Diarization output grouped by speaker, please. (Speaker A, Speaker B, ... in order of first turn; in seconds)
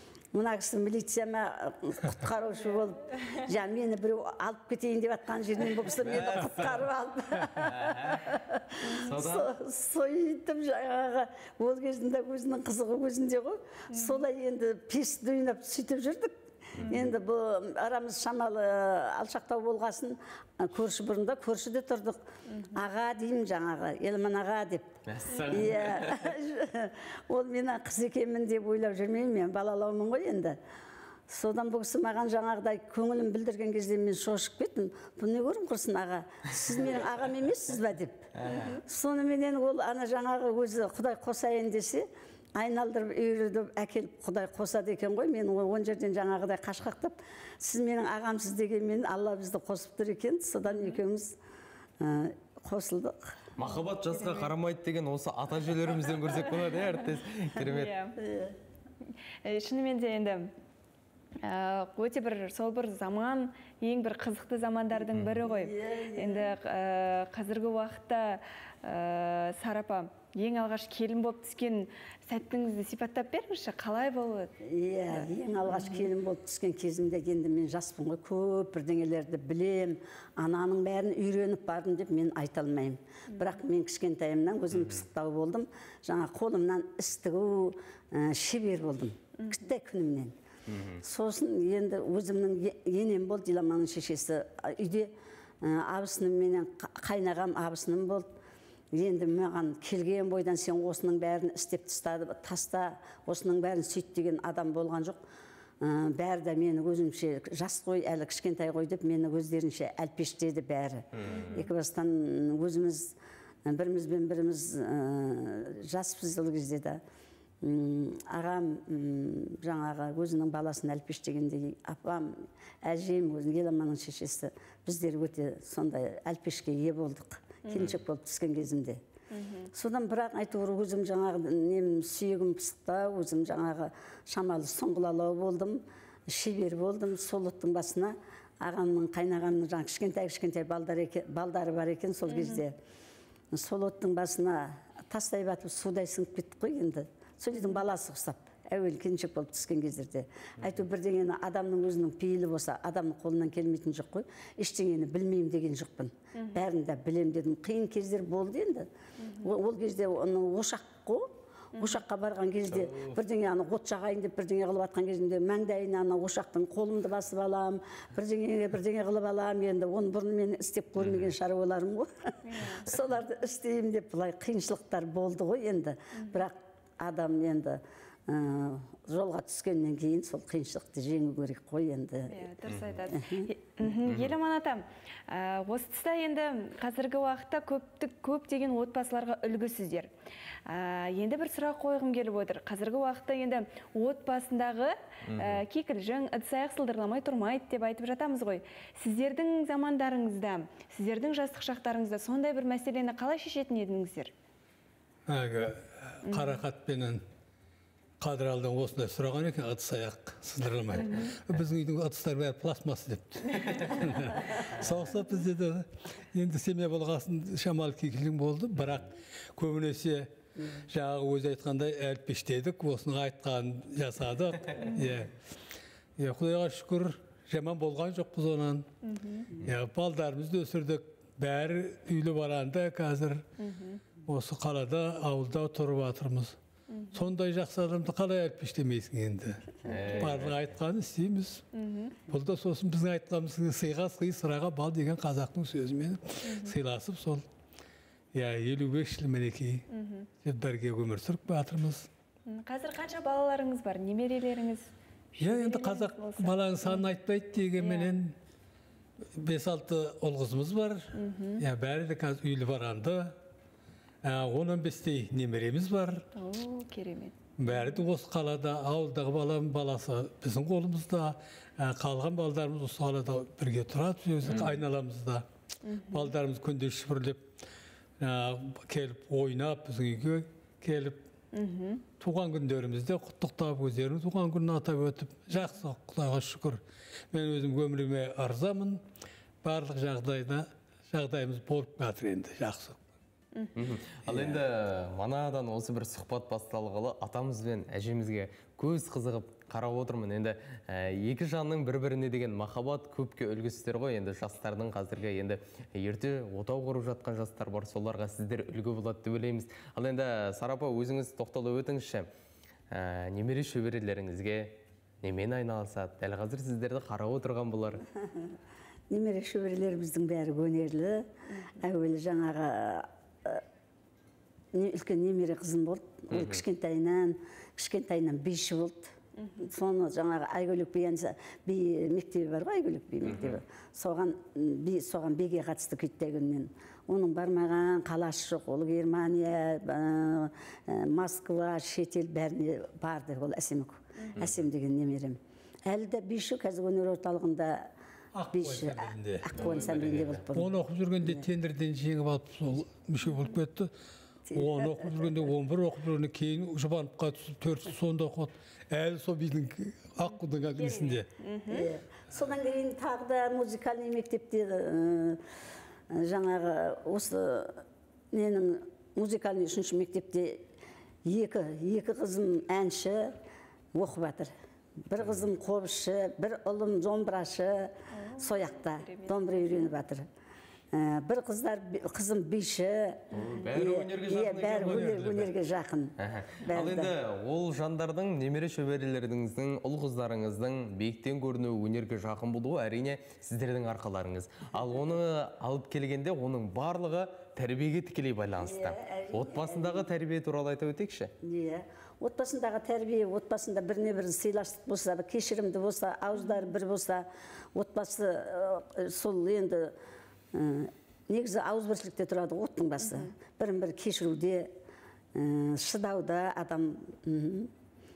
Speaker A: 0.3-22.2, 22.8-30.6, 31.3-51.4, 52.0-53.4, 58.2-58.5, 65.4-66.5, 74.6-90.3, 91.0-98.3, 98.9-105.2, 105.8-113.2, 113.7-117.0, 117.6-122.3, 122.8-129.0, 129.7-142.8, 143.5-158.9, 159.4-182.4, 183.1-183.5, 319.1-321.3, 321.8-323.6, 324.7-347.9, 348.5-350.7, 354.5-355.1, 361.7-365.4, 366.1-367.8, 368.3-370.6, 371.2-373.3, 373.9-374.5, 375.1-380.3, 380.9-387.1, 398.6-400.1, 401.4-409.9, 410.5-414.7, 415.4-417.7
Speaker B: 5.9-6.9, 7.6-8.3, 9.0-9.5, 16.8-17.1, 25.1-26.3, 38.4-38.7, 53.6-57.9, 65.1-65.4, 90.7-91.0, 111.2-111.6, 162.7-163.2, 171.0-171.2, 184.1-184.3, 195.3-195.6, 239.8-240.6, 293.8-312.3, 312.9-318.0, 326.3-326.6, 333.2-333.6, 349.6-350.4, 383.3-385.5, 386.2-401.3
Speaker C: 13.9-14.2, 22.5-22.8, 50.7-51.0, 53.6-54.5, 56.3-56.9, 57.6-58.2, 59.4-60.5, 61.4-74.5, 75.1-76.1, 111.3-111.7, 127.6-127.9, 129.3-129.7, 142.3-142.6, 156.3-156.6, 159.2-159.5, 172.4-172.9, 176.2-176.4, 182.3-190.1, 190.7-204.3, 206.2-206.6, 211.0-211.3, 229.0-229.5, 233.6-234.0, 236.9-237.2, 241.7-242.2, 246.4-246.8, 249.9-250.3, 252.5-257.1, 257.8-258.1, 261.1-261.6, 266.4-268.0, 275.9-276.3, 281.5-282.0, 293.6-293.8, 329.4-329.7, 353.2-353.5, 360.8-361.9, 378.1-379.8, 413.0-413.3
Speaker D: 205.3-207.2, 208.2-225.3, 226.2-228.9, 229.6-233.4, 234.3-236.6, 237.1-241.6, 242.3-247.4, 248.3-249.9, 250.4-252.1, 255.4-258.4, 259.4-263.4, 264.2-266.3, 267.6-275.5, 276.1-277.4, 278.2-281.2, 282.2-289.0, 289.6-293.0, 348.3-349.5, 350.5-353.9, 354.5-361.3